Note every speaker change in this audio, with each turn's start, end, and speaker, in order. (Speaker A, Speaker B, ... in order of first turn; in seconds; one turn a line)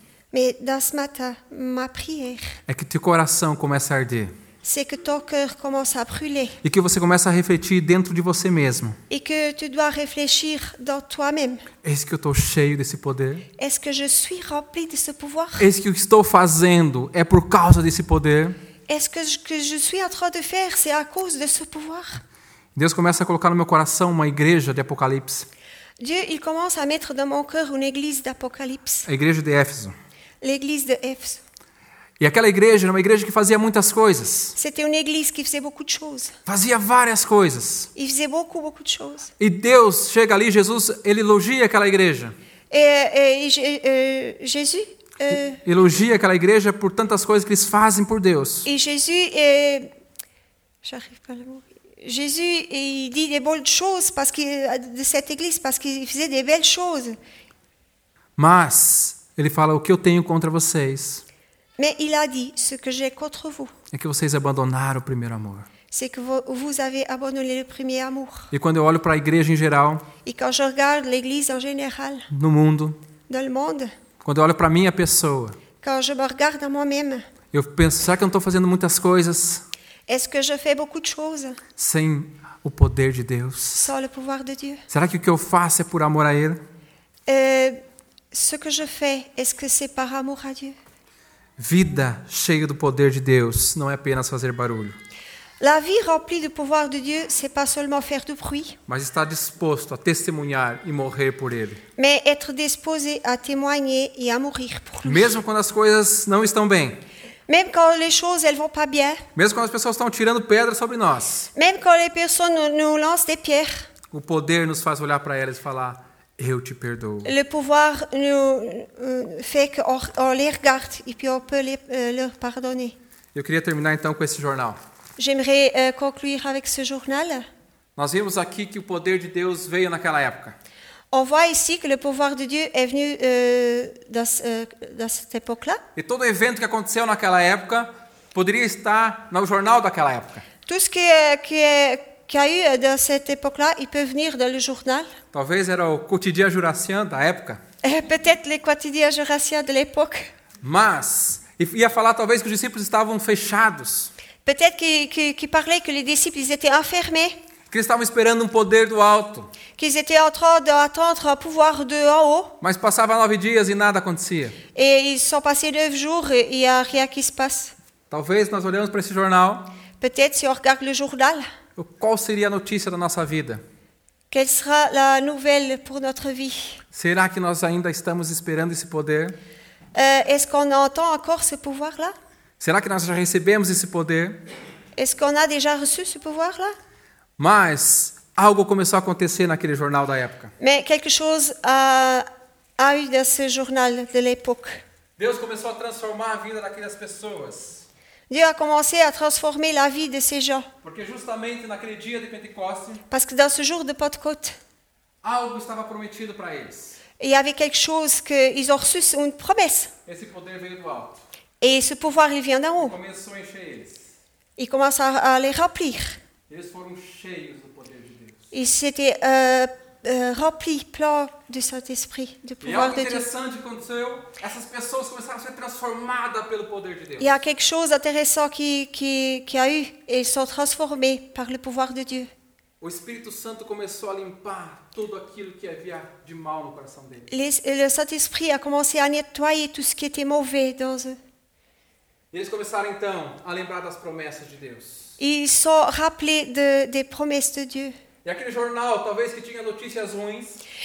Speaker A: 0.3-2.6
Speaker B: 2.7-4.3
Speaker A: 4.6-6.6
Speaker B: 6.6-9.0
Speaker A: 9.1-11.7
Speaker B: 11.8-13.5
Speaker A: 13.6-15.7
Speaker B: 15.6-18.6
Speaker A: 18.9-22.2
Speaker B: 22.8-25.5
Speaker A: 26.0-29.1
Speaker B: 29.1-29.9
Speaker A: 30.4-31.4
Speaker B: 32.2-34.5
Speaker A: 34.6-36.4
Speaker B: 36.5-37.9
Speaker A: 38.0-39.3
Speaker B: 39.4-42.4
Speaker A: 42.7-45.6
Speaker B: 45.6-48.7
Speaker A: 48.7-49.9
Speaker A: 50.8-57.2
Speaker B: 58.4-61.2
Speaker A: 61.8-63.7
Speaker B: 63.9-65.7
Speaker A: 65.9-68.5
Speaker B: 68.5-70.1
Speaker A: 70.2-72.3
Speaker B: 72.3-73.0
Speaker A: 73.3-73.9
Speaker B: 74.2-75.6
Speaker A: 75.8-77.2
Speaker B: 77.5-79.6
Speaker A: 80.1-81.6
Speaker B: 81.8-83.9
Speaker A: 83.8-84.8
Speaker B: 84.9-86.6
Speaker A: 87.3-87.8
Speaker A: 88.3-90.8
Speaker B: 91.6-95.0
Speaker A: 95.6-98.8
Speaker B: 98.9-101.8
Speaker A: 102.0-105.4
Speaker B: 105.0-107.0
Speaker A: 107.5-109.2
Speaker B: 109.3-111.5
Speaker A: 111.5-113.9
Speaker B: 114.1-117.3
Speaker A: 117.2-123.0
Speaker B: 123.3-124.8
Speaker A: 125.2-127.5
Speaker B: 128.0-130.6
Speaker A: 131.1-135.8
Speaker B: 136.0-140.5
Speaker A: 140.7-145.1
Speaker B: 145.3-147.6
Speaker A: 147.8-150.3
Speaker B: 150.6-154.1
Speaker A: 154.4-157.4
Speaker B: 157.7-159.5
Speaker A: 159.8-162.6
Speaker B: 162.6-164.6
Speaker A: 164.8-167.7
Speaker B: 168.1-169.7
Speaker A: 170.0-171.4
Speaker B: 171.8-173.6
Speaker A: 174.3-176.8
Speaker B: 176.9-179.4
Speaker A: 179.9-182.2
Speaker B: 182.6-184.4
Speaker A: 185.0-186.8
Speaker B: 187.4-190.5
Speaker A: 190.6-192.3
Speaker A: 192.8-194.8
Speaker B: 195.2-197.9
Speaker A: 198.3-200.7
Speaker B: 200.8-203.0
Speaker A: 203.1-204.6
Speaker B: 205.2-207.0
Speaker A: 207.2-209.9
Speaker B: 210.1-211.2
Speaker A: 211.6-213.0
Speaker B: 212.8-214.1
Speaker A: 214.6-216.2
Speaker B: 216.5-218.5
Speaker A: 218.5-223.3
Speaker B: 222.6-227.3
Speaker A: 227.2-232.3
Speaker B: 232.8-237.3
Speaker A: 237.3-241.2
Speaker B: 242.3-245.2
Speaker A: 245.2-247.9
Speaker B: 248.2-250.6